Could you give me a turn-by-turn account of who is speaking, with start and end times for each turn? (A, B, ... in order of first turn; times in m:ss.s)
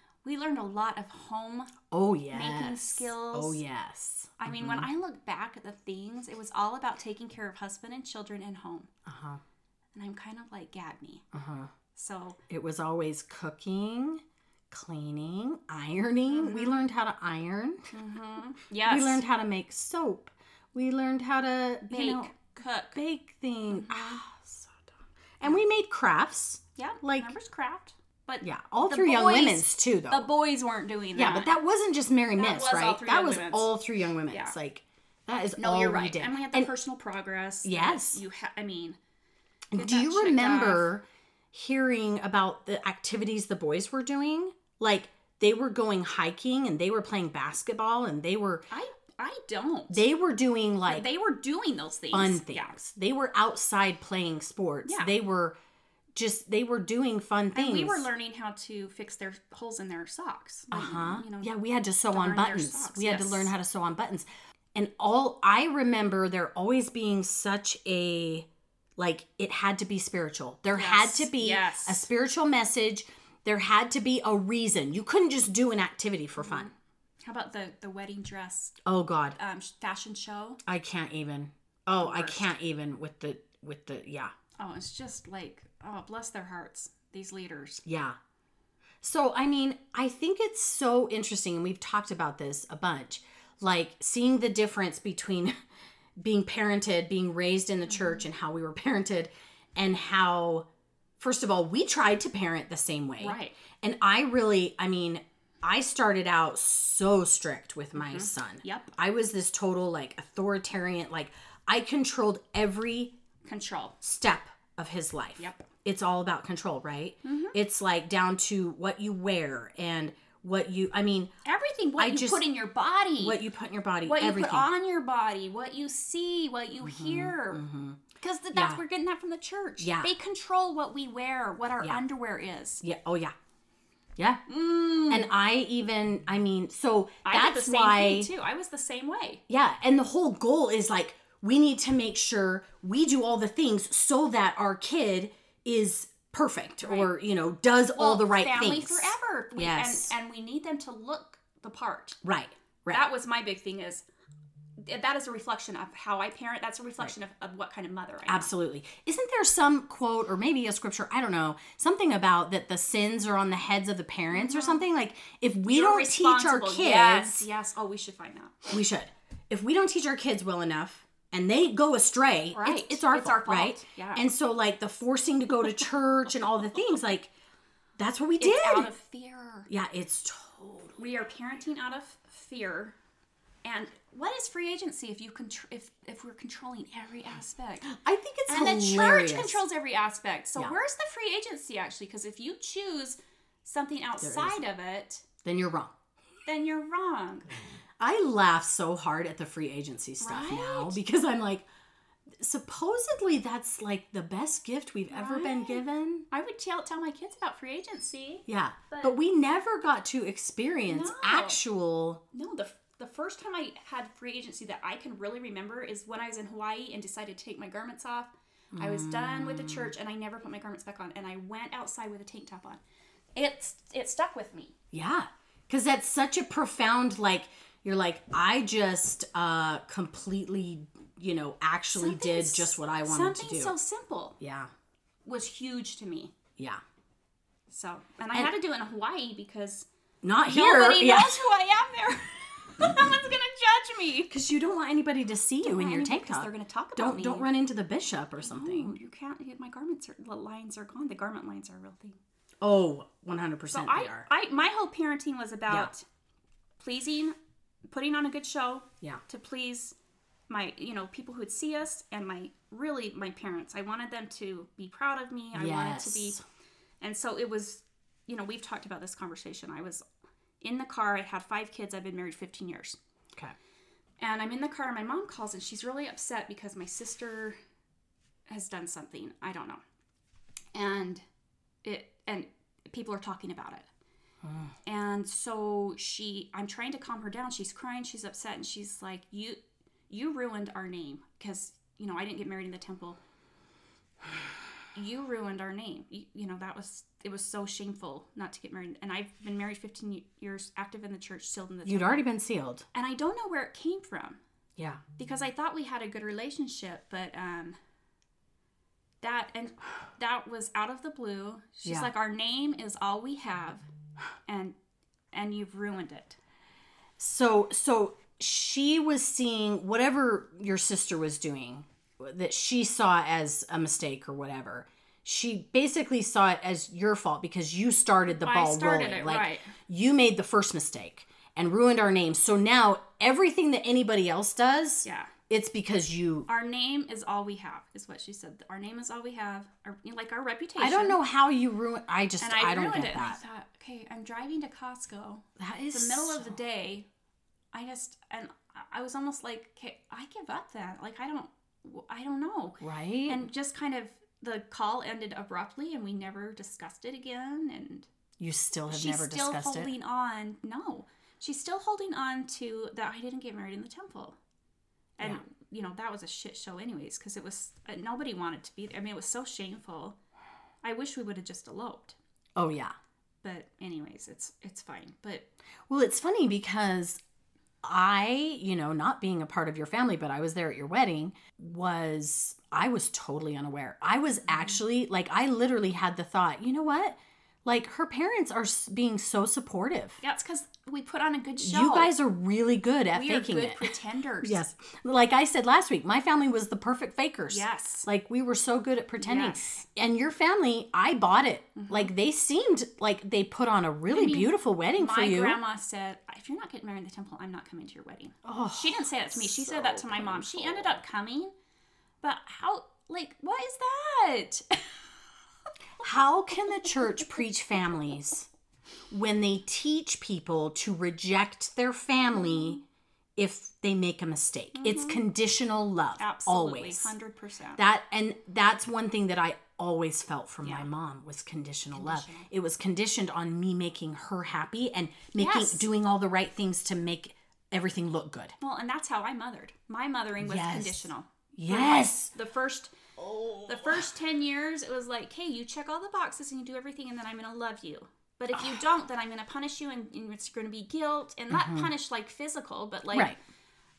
0:00.2-0:01.7 A
0:01.9-0:04.9 B
0:02.3-0:03.6 A
0:04.4-0:08.9 A
0:09.0-0:09.4 B
0:09.9-0:11.2 A
0:11.3-0:11.7 B
0:11.9-0:12.4 A
0:12.5-0:17.9 B
0:16.3-0:16.8 A
0:17.9-0:19.2 A
0:18.8-0:22.3 B
0:21.9-0:23.0 A
0:22.9-0:24.9 B
0:23.7-0:24.2 A
0:25.4-0:27.3 B
0:26.8-0:31.5 A
0:28.4-0:30.3 B
0:31.1-0:36.7 B
0:32.4-0:33.7 A
0:34.3-0:34.5 A
0:35.6-0:39.0 A
0:37.6-0:38.2 B
0:39.7-0:48.6 B
0:39.7-0:40.9 A
0:48.7-0:50.0 A
0:49.9-0:51.1 B
0:50.8-0:52.8 A
0:52.1-0:55.6 B
0:54.8-0:55.1 A
0:56.1-0:58.1 B
0:57.5-1:01.5 A
1:00.7-1:16.7 B
1:02.1-1:03.5 A
1:10.7-1:12.1 A
1:16.4-1:18.8 A
1:18.8-1:19.4 B
1:19.4-1:20.6 A
1:20.6-1:24.3 B
1:22.0-1:22.5 A
1:24.6-1:27.8 A
1:27.8-1:28.2 B
1:29.0-1:35.5 B
1:36.2-1:40.6 B
1:37.9-1:38.2 A
1:41.2-1:53.1 B
1:43.2-1:43.6 A
1:48.0-1:48.9 A
1:53.4-1:54.0 A
1:54.0-2:01.3 B
1:55.4-1:55.6 A
1:57.2-1:57.6 A
2:01.4-2:03.4 A
2:02.0-2:02.4 B
2:03.2-2:04.7 B
2:04.0-2:07.6 A
2:06.8-2:08.0 B
2:08.2-2:12.8 A
2:08.5-2:08.8 B
2:09.8-2:10.1 B
2:12.8-2:13.3 B
2:14.2-2:14.4 B
2:14.5-2:15.3 A
2:15.1-2:18.3 B
2:17.2-2:19.4 A
2:19.5-2:30.1 B
2:26.8-2:27.1 A
2:28.0-2:32.2 A
2:32.2-2:33.0 B
2:32.9-2:34.0 A
2:34.8-2:38.5 A
2:38.2-2:47.5 B
2:44.3-2:44.8 A
2:45.7-2:48.7 A
2:48.7-2:57.3 B
2:52.5-2:54.2 A
2:58.0-2:58.9 B
2:58.4-2:59.7 A
2:59.7-3:01.0 B
3:01.0-3:02.9 A
3:03.6-3:07.9 A
3:07.9-3:09.6 B
3:08.5-3:15.2 A
3:14.2-3:14.6 B
3:15.4-3:15.9 B
3:16.4-3:17.5 A
3:18.0-3:21.6 B
3:20.2-3:21.0 A
3:22.4-3:26.2 B
3:25.1-3:29.1 A
3:28.5-3:32.2 B
3:30.9-3:31.6 A
3:32.3-3:42.8 A
3:38.7-3:39.9 B
3:43.4-3:44.7 A
3:44.9-3:53.7 B
3:51.9-3:54.4 A
3:54.4-3:54.7 B
3:55.2-3:56.3 A
3:57.7-3:59.9 A
4:00.2-4:01.4 B
4:00.4-4:04.3 A
4:04.3-4:08.9 B
4:05.6-4:07.5 A
4:08.4-4:12.2 A
4:12.6-4:14.3 B
4:13.7-4:16.0 A
4:16.8-4:17.4 A
4:17.9-4:19.9 A
4:20.5-4:26.4 A
4:25.5-4:26.4 B
4:27.0-4:30.0 A
4:30.6-4:33.0 A
4:34.2-4:37.6 A
4:38.5-4:39.8 A
4:40.7-4:41.2 A
4:41.8-4:43.9 A
4:44.4-4:44.7 B
4:44.8-4:53.2 A
4:54.9-5:02.2 A
5:01.8-5:02.9 B
5:02.9-5:04.4 A
5:04.8-5:05.0 B
5:05.2-5:07.8 A
5:09.2-5:13.8 A
5:11.8-5:12.1 B
5:14.5-5:14.7 A
5:15.3-5:16.4 A
5:17.2-5:36.5 B
5:28.3-5:29.7 A
5:35.0-5:35.3 A
5:36.5-5:41.2 A
5:40.8-5:43.4 B
5:42.4-5:47.1 A
5:45.6-5:46.5 B
5:47.7-5:58.1 A
5:52.8-5:53.4 B
5:58.4-5:59.9 B
5:58.9-6:04.4 A
6:05.2-6:10.2 A
6:10.8-6:12.2 A
6:12.6-6:12.9 B
6:13.4-6:15.5 A
6:15.9-6:17.2 B
6:17.8-6:30.2 B
6:30.2-6:32.1 A
6:31.6-6:45.6 B
6:33.1-6:34.6 A
6:37.5-6:38.1 A
6:39.2-6:39.8 A
6:41.8-6:42.1 A
6:44.1-6:51.5 A
6:48.4-6:51.0 B
6:52.2-6:55.0 A
6:56.0-6:58.5 B
6:59.1-7:02.8 B
7:02.3-7:02.8 A
7:03.4-7:07.1 B
7:04.7-7:05.2 A
7:06.2-7:07.8 A
7:07.8-7:18.6 B
7:11.9-7:12.5 A
7:15.4-7:15.8 A
7:18.6-7:23.0 A
7:20.4-7:22.3 B
7:23.2-7:24.0 B
7:23.6-7:33.3 A
7:31.5-7:31.9 B
7:33.1-7:33.4 B